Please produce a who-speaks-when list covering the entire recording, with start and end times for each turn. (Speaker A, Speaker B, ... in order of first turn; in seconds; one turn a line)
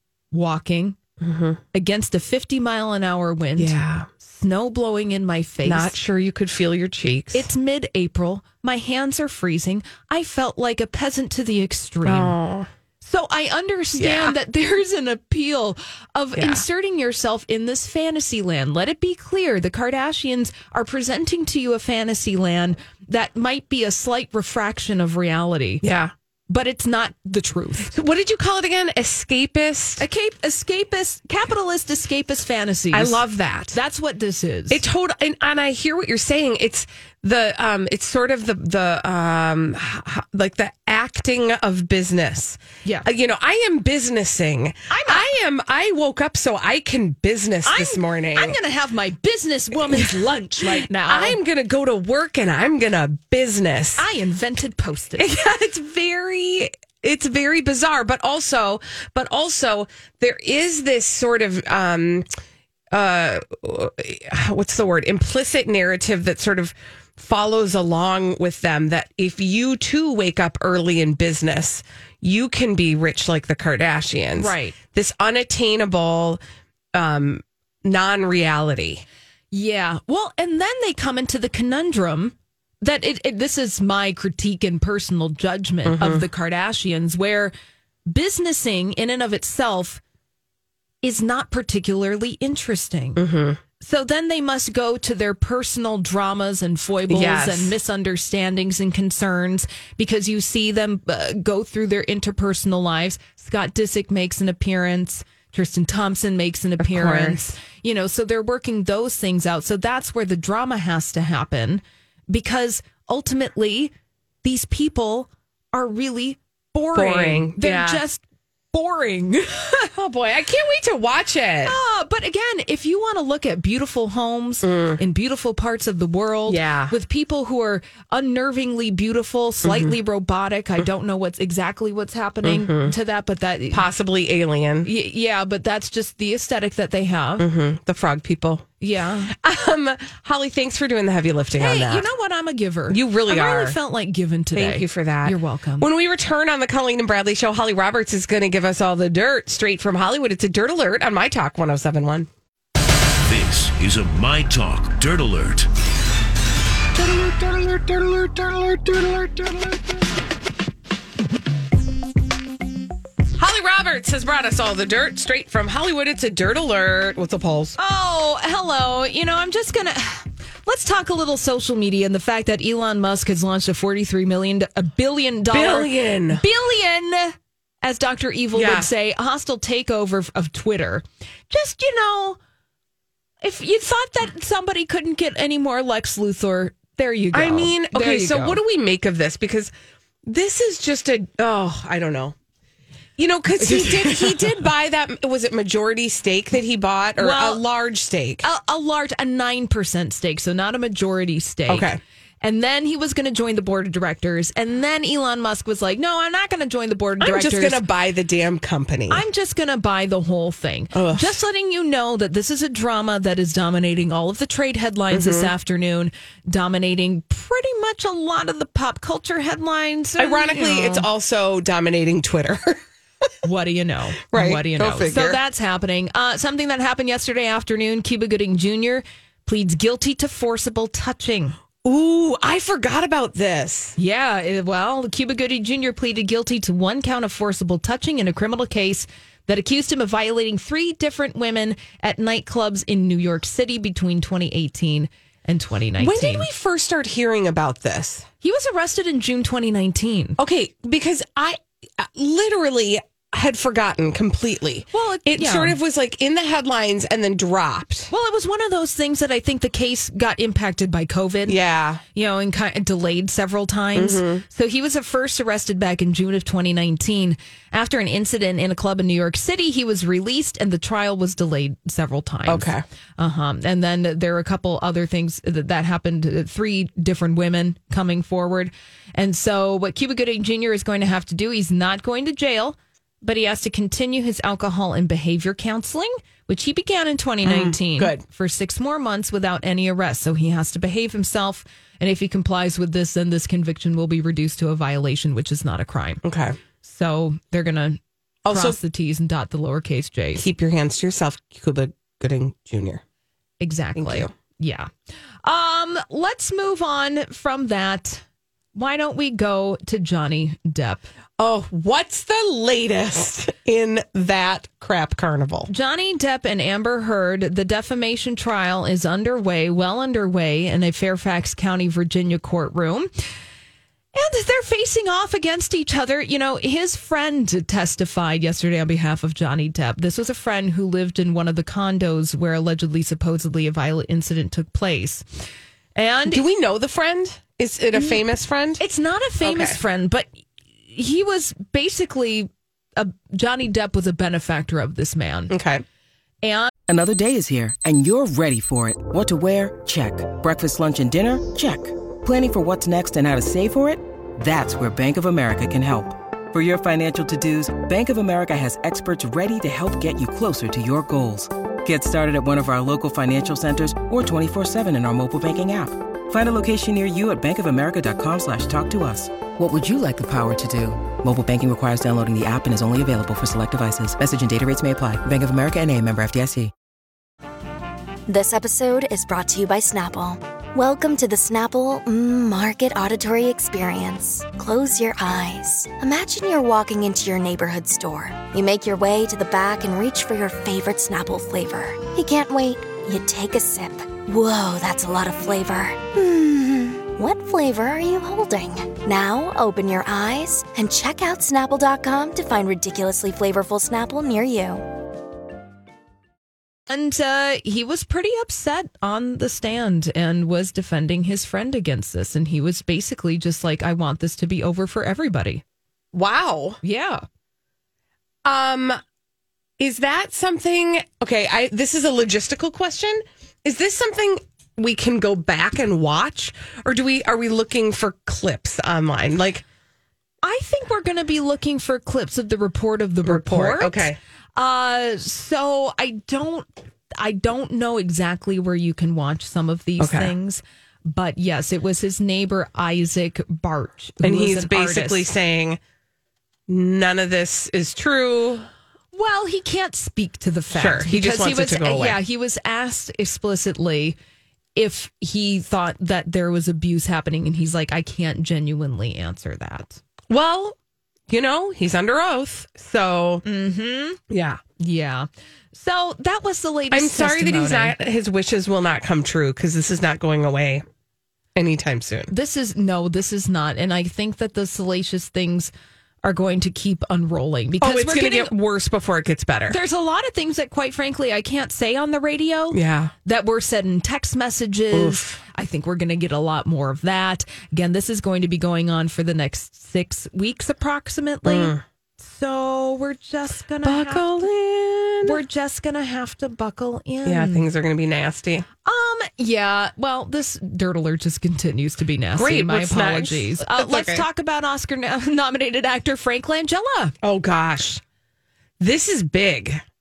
Speaker A: 0.3-1.0
Speaker B: 1.2-1.6
Speaker A: 1.7-6.0
Speaker B: 3.6-4.1
Speaker B: 5.6-7.5
Speaker A: 7.3-12.4
Speaker B: 12.0-12.7
Speaker A: 13.0-25.8
Speaker B: 13.9-14.3
Speaker B: 16.4-16.6
Speaker B: 25.8-26.1
Speaker A: 26.5-27.9
Speaker B: 27.9-30.0
Speaker A: 30.0-34.8
Speaker B: 32.9-33.8
Speaker B: 34.7-48.6
Speaker A: 44.9-45.3
Speaker A: 47.6-51.4
Speaker B: 49.8-54.1
Speaker A: 54.0-55.3
Speaker B: 55.2-62.3
Speaker B: 62.9-76.4
Speaker A: 74.3-74.8
Speaker B: 76.9-79.0
Speaker A: 79.5-87.5
Speaker B: 85.8-86.2
Speaker A: 88.1-90.0
Speaker A: 91.0-93.2
Speaker B: 93.2-93.6
Speaker A: 93.8-119.9
Speaker B: 97.1-97.8
Speaker B: 106.8-107.5
Speaker B: 116.9-118.0
Speaker B: 119.9-121.8
Speaker A: 121.7-133.9
Speaker B: 124.6-125.0
Speaker B: 126.5-126.9
Speaker B: 129.6-129.9
Speaker B: 132.4-132.9
Speaker B: 133.7-134.9
Speaker A: 134.8-137.5
Speaker B: 137.4-138.7
Speaker A: 138.8-139.3
Speaker B: 139.3-142.1
Speaker A: 141.6-145.9
Speaker B: 142.9-143.8
Speaker B: 144.5-152.3
Speaker C: 153.2-155.7
Speaker B: 157.0-159.6
Speaker B: 163.3-167.8
Speaker A: 167.8-182.4
Speaker B: 175.5-176.4
Speaker B: 178.5-178.9
Speaker A: 183.4-188.6
Speaker B: 187.3-189.7
Speaker B: 190.2-192.3
Speaker B: 193.2-198.4
Speaker A: 193.6-194.5
Speaker A: 197.2-197.6
Speaker A: 198.4-207.8
Speaker B: 201.7-202.0
Speaker B: 207.2-209.2
Speaker A: 209.1-221.1
Speaker B: 210.9-211.4
Speaker B: 215.1-215.5
Speaker B: 220.2-222.8
Speaker A: 223.4-231.6
Speaker B: 224.3-225.4
Speaker B: 231.8-233.9
Speaker A: 234.0-246.5
Speaker B: 246.0-248.3
Speaker A: 248.4-250.4
Speaker B: 250.4-258.1
Speaker A: 254.9-255.8
Speaker A: 258.1-261.6
Speaker B: 261.4-262.0
Speaker A: 262.1-296.2
Speaker B: 263.9-264.4
Speaker B: 272.5-272.8
Speaker B: 287.4-288.2
Speaker B: 296.2-296.6
Speaker A: 296.8-300.4
Speaker B: 298.4-298.8
Speaker B: 300.4-303.0
Speaker A: 303.6-304.9
Speaker B: 303.9-304.3
Speaker A: 305.4-308.2
Speaker A: 308.7-311.1
Speaker B: 311.4-315.7
Speaker A: 315.7-323.1
Speaker A: 324.1-335.2
Speaker A: 335.9-336.4
Speaker B: 336.3-338.8
Speaker A: 337.9-338.2
Speaker A: 338.8-340.3
Speaker B: 339.4-339.8
Speaker A: 340.9-345.5
Speaker B: 345.5-345.8
Speaker A: 346.4-346.7
Speaker D: 346.9-376.7
Speaker E: 378.3-404.8
Speaker A: 406.9-415.6
Speaker B: 416.1-416.8
Speaker A: 416.8-417.2
Speaker B: 418.4-419.0
Speaker B: 419.8-429.6
Speaker A: 430.4-445.3
Speaker B: 433.2-434.2
Speaker B: 440.0-440.3
Speaker B: 444.2-445.8
Speaker B: 446.7-448.7
Speaker A: 449.1-454.1
Speaker B: 450.7-452.2
Speaker A: 454.8-460.0
Speaker B: 460.3-460.8
Speaker B: 461.3-463.4
Speaker A: 463.4-464.2
Speaker B: 464.3-464.6
Speaker A: 464.8-467.9
Speaker B: 466.9-470.8
Speaker B: 471.5-472.3
Speaker A: 472.3-475.7
Speaker A: 476.2-478.5
Speaker B: 477.8-479.8
Speaker A: 479.7-494.5
Speaker B: 482.7-483.1
Speaker B: 484.9-485.4
Speaker B: 491.4-491.8
Speaker B: 493.8-495.4
Speaker A: 495.2-497.7
Speaker B: 497.2-498.7
Speaker A: 498.8-507.1
Speaker B: 502.3-504.2
Speaker B: 507.2-508.0
Speaker B: 508.8-509.8